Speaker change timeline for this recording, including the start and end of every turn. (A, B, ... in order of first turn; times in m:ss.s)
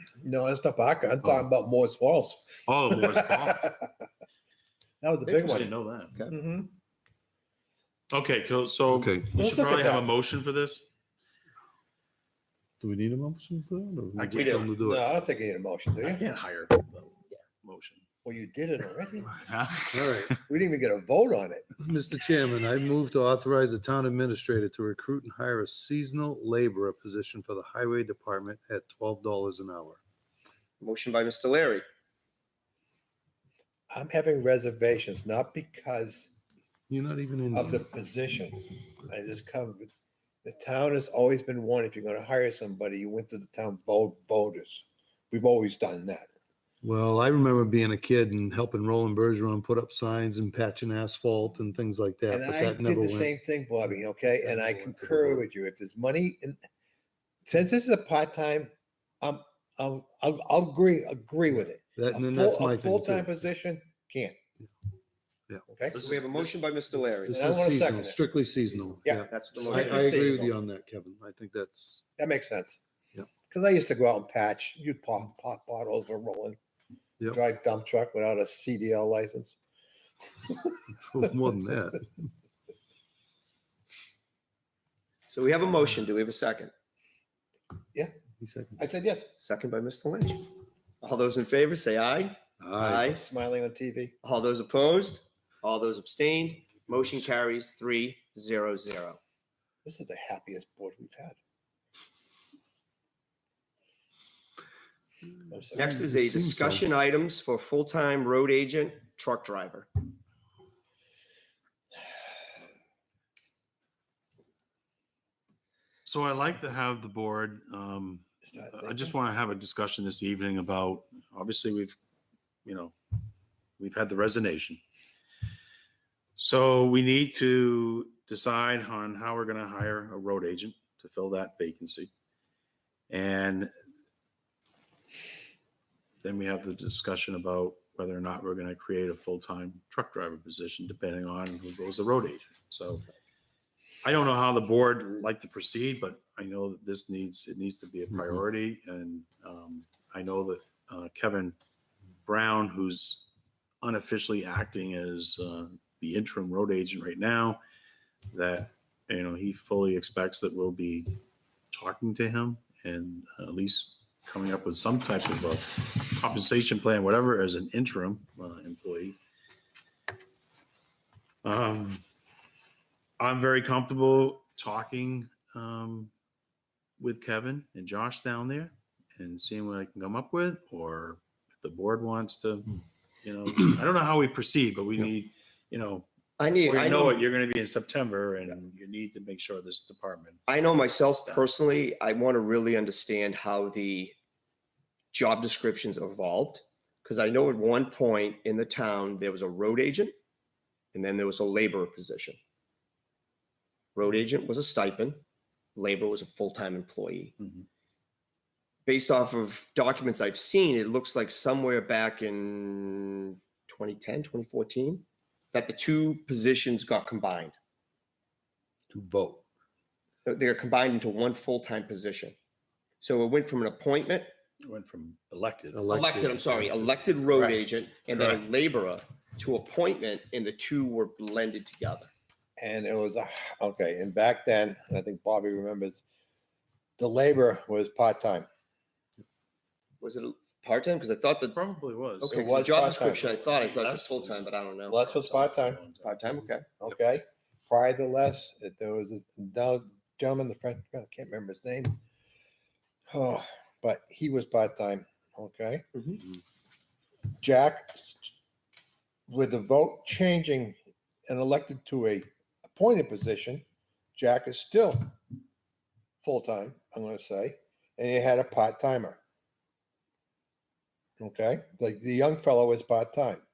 0:00.2-0:03.9 A
0:02.7-0:03.7 B
0:05.0-0:05.7 A
0:05.2-0:06.3 C
0:05.4-0:06.2 B
0:06.3-0:06.7 A
0:08.1-0:10.9 B
0:08.9-0:09.3 D
0:09.4-0:10.1 A
0:12.8-0:15.0 D
0:14.2-0:14.7 B
0:14.4-0:14.7 C
0:14.8-0:16.2 A
0:16.0-0:18.0 B
0:18.2-0:19.3 A
0:19.3-0:20.4 B
0:19.9-0:20.4 D
0:20.5-0:21.7 A
0:21.8-0:30.0 D
0:30.8-0:31.8 C
0:33.9-0:36.3 A
0:36.9-0:37.8 D
0:37.5-0:39.9 A
0:40.4-0:46.3 A
0:46.8-0:53.3 D
0:52.3-0:56.6 A
0:54.3-0:55.5 D
0:57.5-0:58.7 A
0:59.2-1:04.4 A
1:02.0-1:03.3 D
1:05.7-1:06.2 A
1:05.9-1:06.5 B
1:06.0-1:07.4 C
1:07.0-1:12.1 D
1:07.3-1:08.2 A
1:09.0-1:10.6 A
1:09.3-1:10.4 C
1:12.2-1:12.8 A
1:13.5-1:16.6 A
1:17.3-1:19.6 A
1:20.9-1:22.1 D
1:25.3-1:26.7 C
1:28.4-1:28.8 D
1:28.8-1:29.3 A
1:29.4-1:33.2 C
1:32.6-1:33.1 D
1:33.0-1:34.1 A
1:34.2-1:39.2 C
1:39.8-1:41.4 A
1:45.5-1:46.0 A
1:45.7-1:49.9 C
1:45.8-1:46.8 D
1:56.1-2:02.0 B
1:58.5-1:59.2 A
2:02.6-2:03.0 B
2:03.8-2:04.8 B
2:06.4-2:12.1 B
2:13.1-2:13.7 B
2:16.2-2:23.0 B
2:24.0-2:31.6 B
2:32.3-2:33.3 B
2:33.8-2:37.6 B
2:38.3-2:41.2 B
2:41.7-2:49.2 B
2:51.4-2:52.0 B
2:53.2-2:56.1 B
2:57.0-3:06.1 B
3:06.4-3:07.3 C
3:06.6-3:10.5 B
3:10.5-3:14.2 C
3:15.1-3:20.1 C
3:20.9-3:22.4 C
3:24.0-3:25.2 C
3:25.8-3:27.4 C
3:27.4-3:27.7 B
3:28.9-3:37.6 C
3:38.9-3:39.4 D
3:40.2-3:42.4 C
3:43.0-3:44.3 C
3:44.6-3:45.8 B
3:45.7-3:46.8 D
3:45.9-3:52.1 C
3:47.3-3:47.6 A
3:48.1-3:48.4 B
3:52.6-3:56.0 A
3:57.0-3:58.5 A
4:00.0-4:01.6 C
4:01.5-4:06.4 B
4:02.2-4:05.0 C
4:02.3-4:03.3 A
4:04.9-4:05.8 A
4:06.0-4:06.7 C
4:06.8-4:12.0 A
4:13.1-4:15.8 A
4:16.0-4:16.2 C
4:17.4-4:18.3 A
4:19.3-4:20.8 A
4:21.3-4:23.6 A
4:24.2-4:25.2 A
4:26.2-4:29.2 A
4:31.2-4:33.4 A